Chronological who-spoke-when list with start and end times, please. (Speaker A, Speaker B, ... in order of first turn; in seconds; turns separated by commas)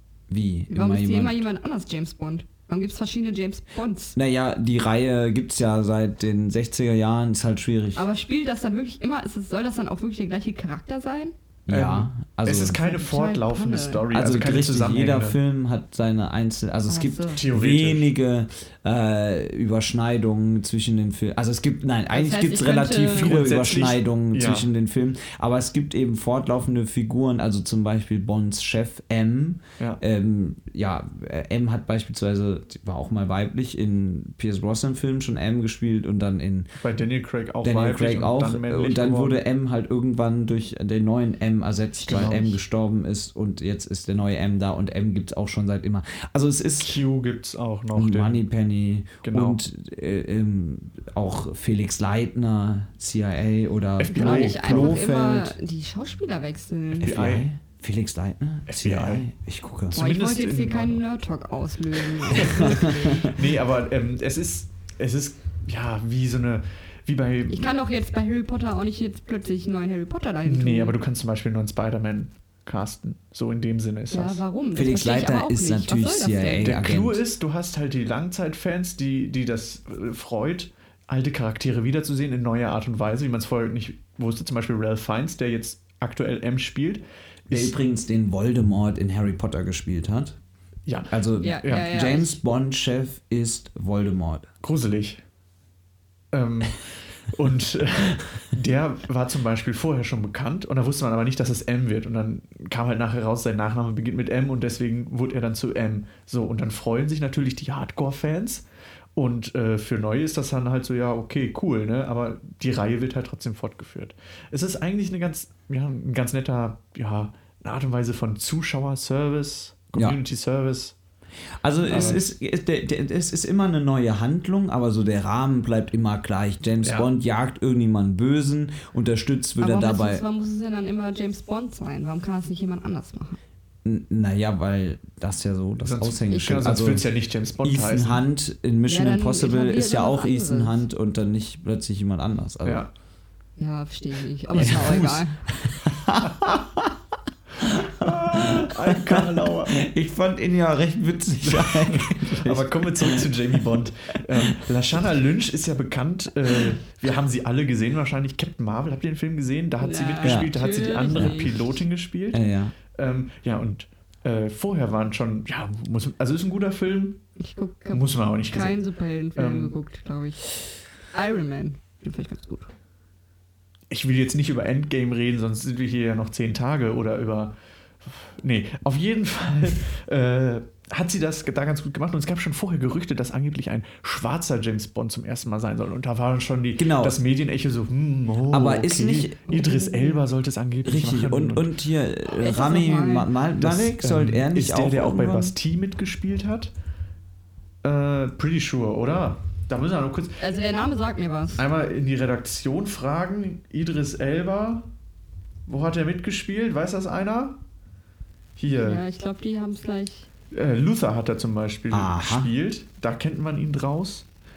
Speaker A: 0.3-1.5, Speaker B: 0.7-4.2, Speaker A: 4.2-8.1, Speaker B: 8.0-11.3, Speaker A: 11.7-12.8, Speaker C: 11.7-15.4, Speaker B: 12.8-14.1, Speaker A: 14.1-36.7, Speaker B: 16.9-17.4, Speaker C: 17.3-18.1, Speaker B: 22.1-23.3, Speaker C: 23.1-24.7, Speaker C: 36.8-39.4, Speaker A: 37.6-47.0, Speaker C: 42.0-42.6, Speaker C: 46.8-48.4, Speaker A: 47.9-55.6, Speaker C: 49.2-49.6, Speaker C: 54.0-55.0, Speaker B: 54.1-57.2, Speaker A: 57.0-60.0, Speaker C: 57.0-57.5, Speaker C: 58.7-59.3, Speaker C: 59.9-61.0, Speaker B: 59.9-63.3, Speaker C: 62.3-67.7, Speaker A: 62.4-63.2, Speaker B: 67.5-71.0, Speaker C: 70.5-74.4, Speaker B: 74.1-76.8, Speaker A: 74.8-77.2, Speaker C: 76.6-87.7, Speaker A: 87.5-90.4, Speaker C: 90.9-91.9, Speaker A: 91.1-94.5, Speaker B: 91.4-92.4, Speaker C: 94.6-95.2, Speaker C: 96.3-108.7, Speaker C: 109.2-121.0, Speaker A: 120.0-120.2, Speaker A: 121.6-130.2, Speaker C: 121.8-122.2, Speaker C: 126.8-127.1, Speaker B: 129.6-133.4, Speaker A: 133.8-137.1, Speaker C: 135.8-138.2, Speaker A: 137.6-142.9, Speaker B: 138.9-140.8, Speaker C: 142.7-142.9, Speaker B: 143.6-145.4, Speaker C: 144.5-145.2, Speaker A: 144.6-147.0, Speaker A: 147.6-153.3, Speaker C: 148.0-149.9, Speaker C: 151.4-167.2, Speaker B: 159.8-161.6, Speaker A: 160.2-160.5, Speaker A: 161.1-161.6, Speaker A: 162.3-162.8, Speaker B: 167.4-170.5, Speaker C: 167.9-168.8, Speaker C: 169.4-169.8, Speaker B: 171.1-172.7, Speaker C: 173.9-191.7, Speaker A: 186.8-187.2, Speaker A: 188.5-189.4, Speaker B: 189.5-190.2, Speaker A: 190.8-195.6, Speaker B: 192.3-193.3, Speaker C: 193.6-196.7, Speaker C: 197.8-200.4, Speaker B: 200.4-201.6, Speaker C: 201.6-204.9, Speaker C: 205.7-207.6, Speaker C: 208.6-209.0, Speaker B: 208.7-210.3, Speaker C: 210.5-214.3, Speaker A: 211.9-212.5